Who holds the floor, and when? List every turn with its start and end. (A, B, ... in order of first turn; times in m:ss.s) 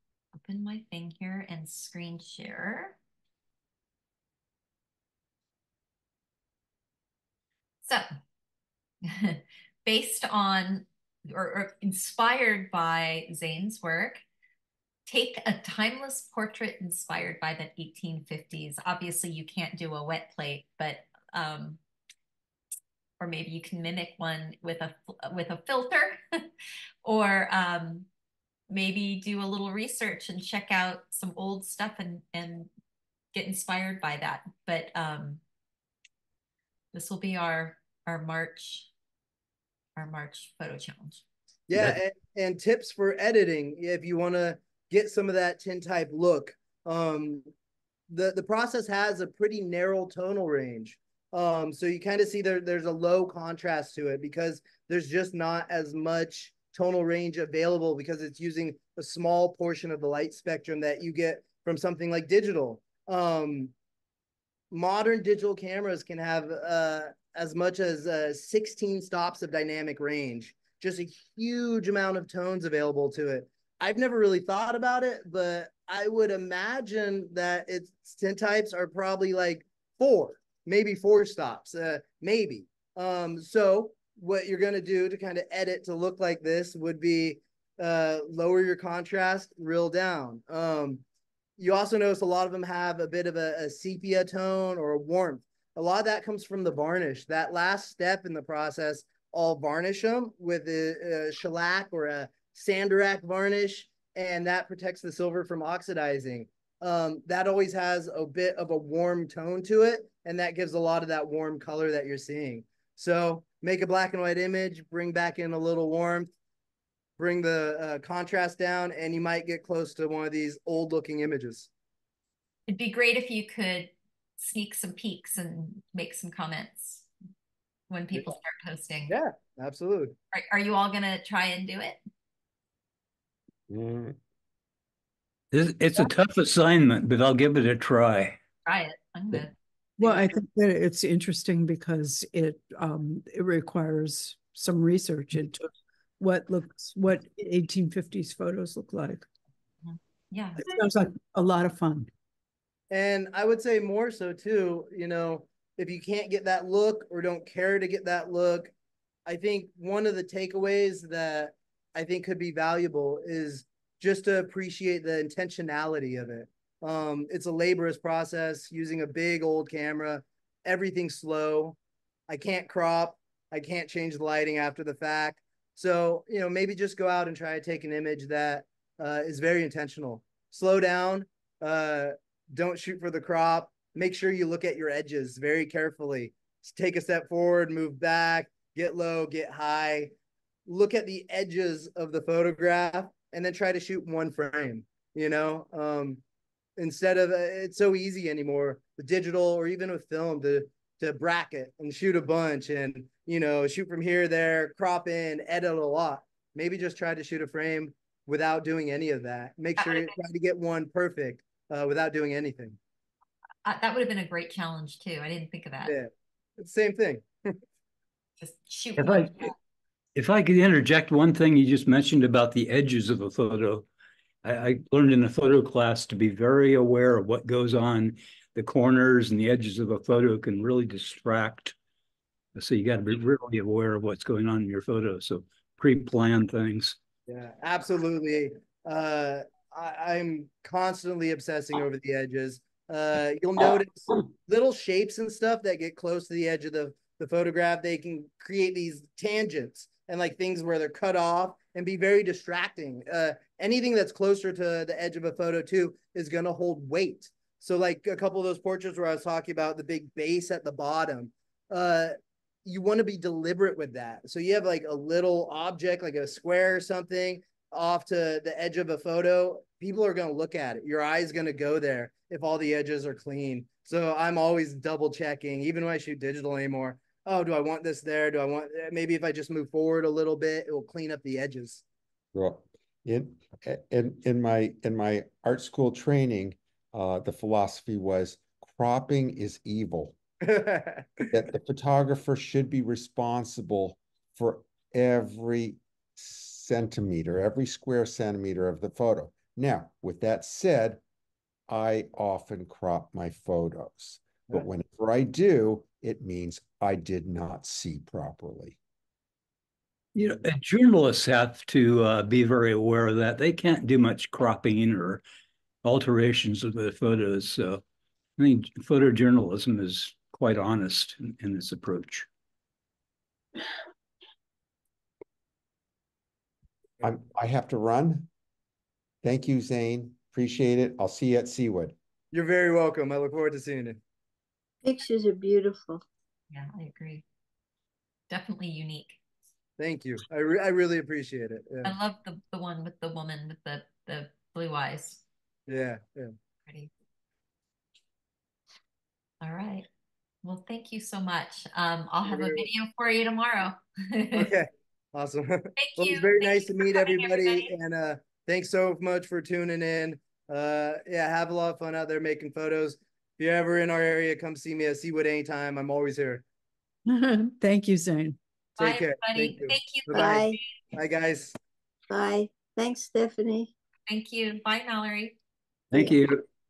0:00.3-0:03.0 A
0:07.8-0:08.1 A
0:09.0-0:14.2 A
0:15.1-0:21.8 A
0:23.2-0:26.5 A
0:27.0-0:28.1 A
0:28.7-0:32.7 A
0:33.3-0:35.4 A
0:36.9-0:38.9 A
0:40.0-0:41.2 A
0:41.7-0:47.5 B
0:48.1-1:03.7 B
1:04.7-1:31.0 B
1:31.6-1:56.3 B
1:57.2-2:01.7 B
2:02.7-2:07.1 A
2:07.9-2:09.2 A
2:09.1-2:10.1 B
2:10.3-2:12.0 A
2:13.7-2:14.2 C
2:15.5-2:18.4 D
2:18.6-2:20.4 A
2:20.0-2:25.6 E
2:26.2-2:29.3 E
2:29.8-2:30.7 A
2:30.6-2:32.1 E
2:32.9-2:38.7 B
2:39.3-2:51.8 B
2:52.3-3:10.1 B
3:10.7-3:16.2 B
3:16.8-3:32.8 B
3:29.8-3:30.2 A
3:33.6-3:35.9 A
3:35.9-3:37.6 B
3:38.4-3:39.5 A
3:39.0-3:39.5 D
3:40.2-3:43.9 D
3:44.4-3:51.8 D
3:52.6-3:57.0 D
3:57.3-4:41.8 B
4:42.3-4:50.2 C
4:50.4-4:51.3 B
4:51.3-5:01.0 C
5:01.7-5:08.8 C
5:10.2-5:15.2 D
5:15.8-5:17.8 D
5:18.4-5:22.3 D
5:27.0-5:28.3 C
5:29.2-5:32.0 C
5:32.3-5:34.0 B
5:34.8-5:36.0 F
5:36.5-5:37.2 A
5:38.3-5:39.2 A
5:39.8-5:41.9 B
5:41.8-5:45.2 A
5:45.7-5:46.3 B
5:46.7-5:46.9 A
5:49.4-5:49.9 A
5:50.4-5:54.5 A
5:52.2-5:52.7 B
5:54.3-6:06.4 B
5:55.8-5:57.7 A
6:07.1-6:08.4 E
6:08.8-6:10.6 A
6:08.8-6:10.4 B
6:10.1-6:10.6 F
6:10.9-6:11.6 B
6:12.1-6:13.7 F
6:14.1-6:15.4 A
6:15.9-6:16.4 D
6:15.9-6:16.2 F